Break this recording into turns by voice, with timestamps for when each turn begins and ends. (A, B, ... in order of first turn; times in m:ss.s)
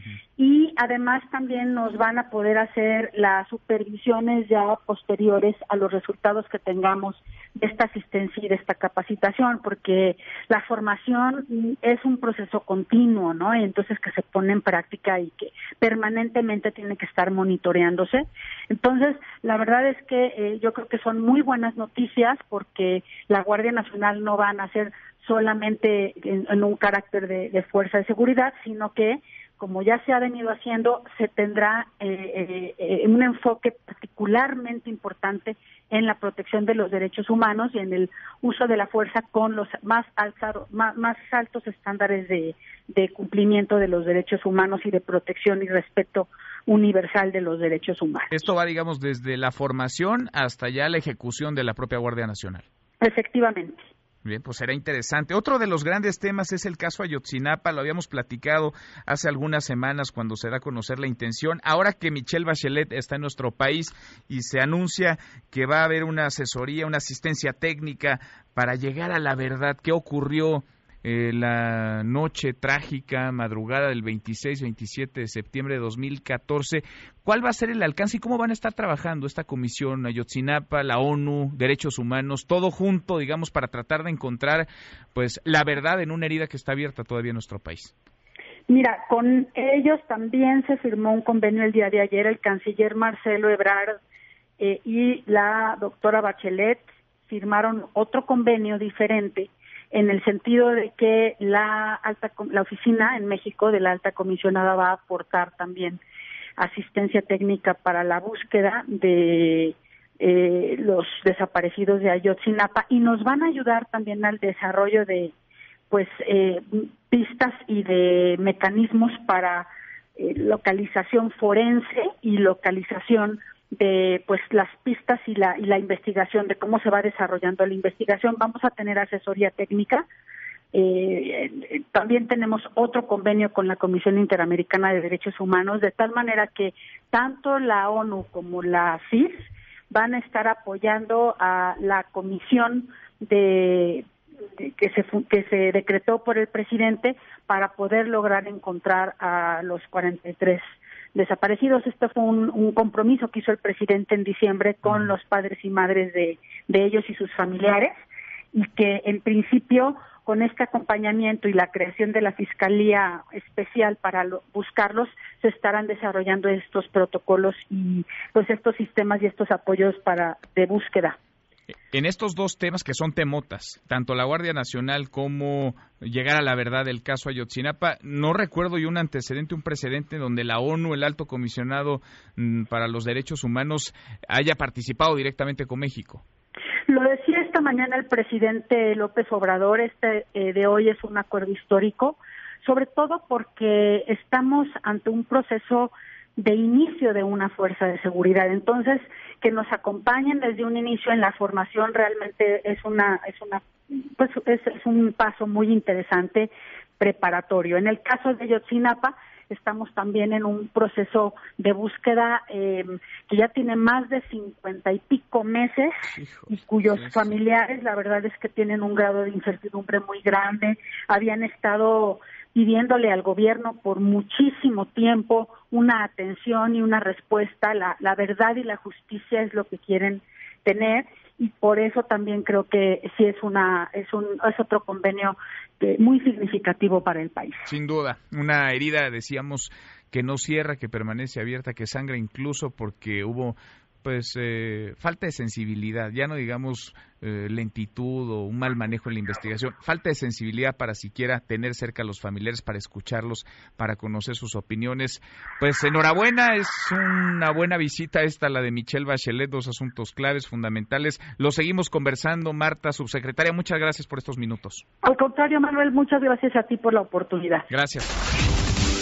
0:00.4-0:48.3 A
0:48.3-0:52.6 B
0:53.0-0:53.8 A
0:54.2-1:27.9 B
1:28.7-1:34.0 A
1:34.6-1:46.0 A
1:46.6-1:55.3 A
1:55.9-2:10.0 A
2:10.7-2:24.1 A
2:24.6-2:30.6 A
2:31.1-2:37.9 A
2:38.5-2:51.2 A
2:51.9-3:06.2 B
3:06.9-3:57.7 A
3:57.6-4:24.8 B
4:25.0-4:27.7 A
4:27.7-4:28.1 B